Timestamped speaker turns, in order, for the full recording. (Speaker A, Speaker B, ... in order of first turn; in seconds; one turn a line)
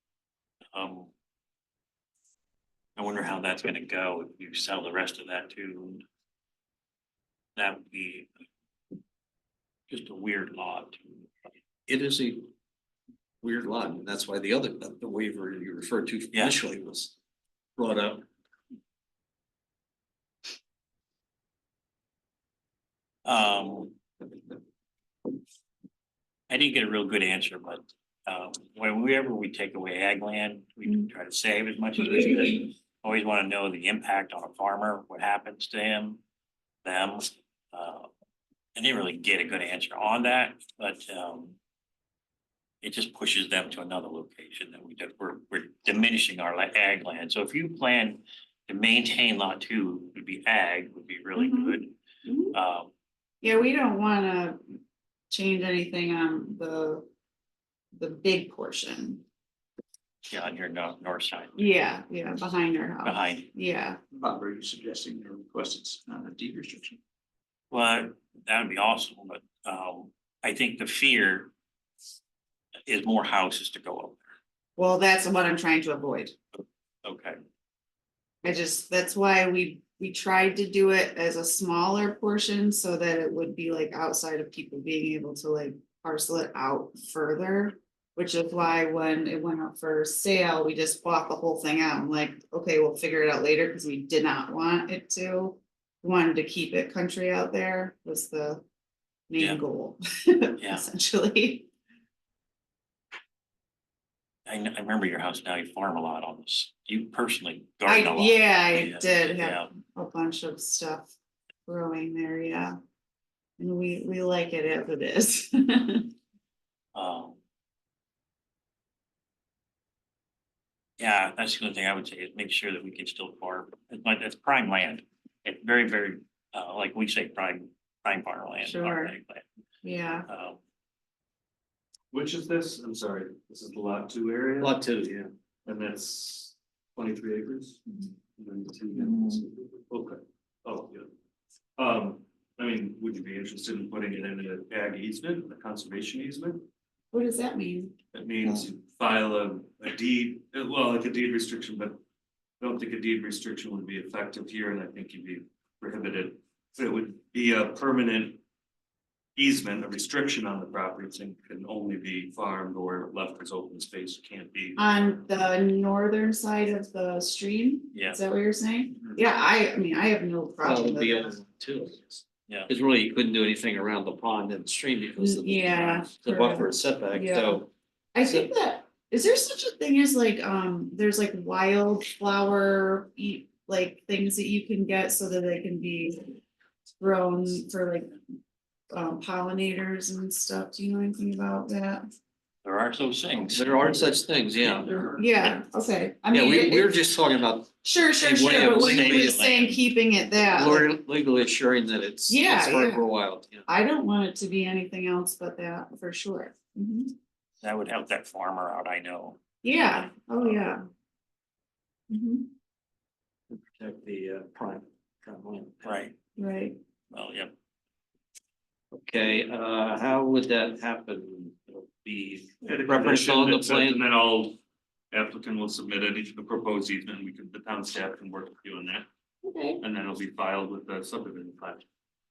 Speaker A: 0.7-1.1
Speaker A: 3.0-6.0
Speaker A: 7.6-8.3
Speaker A: 9.9-11.3
Speaker B: 11.9-12.5
Speaker B: 13.4-17.1
Speaker B: 17.8-18.2
Speaker A: 23.3-24.0
Speaker A: 26.5-36.2
Speaker A: 36.9-38.1
Speaker A: 38.8-41.6
Speaker A: 42.8-52.0
Speaker C: 51.4-52.6
Speaker A: 52.5-52.9
Speaker C: 53.4-54.6
Speaker C: 55.3-57.1
Speaker C: 57.9-59.2
Speaker A: 60.3-61.5
Speaker C: 61.5-64.0
Speaker A: 63.0-63.5
Speaker D: 64.1-67.0
Speaker A: 67.7-71.5
Speaker A: 72.9-74.2
Speaker C: 74.8-76.3
Speaker A: 77.0-77.4
Speaker C: 78.4-98.6
Speaker C: 99.3-101.7
Speaker A: 100.6-100.9
Speaker A: 104.5-109.7
Speaker C: 107.8-111.1
Speaker C: 111.7-112.8
Speaker C: 113.6-116.1
Speaker A: 117.0-117.4
Speaker A: 121.0-129.4
Speaker C: 128.6-129.1
Speaker C: 129.8-130.3
Speaker A: 130.3-130.6
Speaker E: 132.1-134.8
Speaker B: 134.6-135.3
Speaker E: 135.7-137.8
Speaker E: 138.4-141.1
Speaker E: 141.8-146.6
Speaker C: 147.1-148.7
Speaker E: 148.1-152.0
Speaker E: 152.6-158.4
Speaker E: 159.4-164.8
Speaker C: 164.8-171.3
Speaker A: 167.9-168.2
Speaker B: 170.6-177.7
Speaker C: 175.2-186.4
Speaker B: 178.2-178.5
Speaker C: 187.0-188.2
Speaker C: 188.9-192.1
Speaker A: 192.6-195.6
Speaker B: 193.5-195.0
Speaker C: 194.7-196.9
Speaker B: 196.3-199.4
Speaker C: 197.8-200.9
Speaker A: 198.5-199.8
Speaker B: 200.6-203.7
Speaker C: 202.3-203.1
Speaker C: 203.7-207.1
Speaker A: 207.6-209.4
Speaker C: 209.6-210.8
Speaker C: 212.1-212.5
Speaker B: 213.5-216.0
Speaker A: 215.8-216.2
Speaker C: 216.4-216.8
Speaker A: 217.1-217.5
Speaker B: 218.9-224.1
Speaker E: 222.6-224.6
Speaker E: 225.1-229.1
Speaker C: 229.4-229.8
Speaker E: 229.8-231.8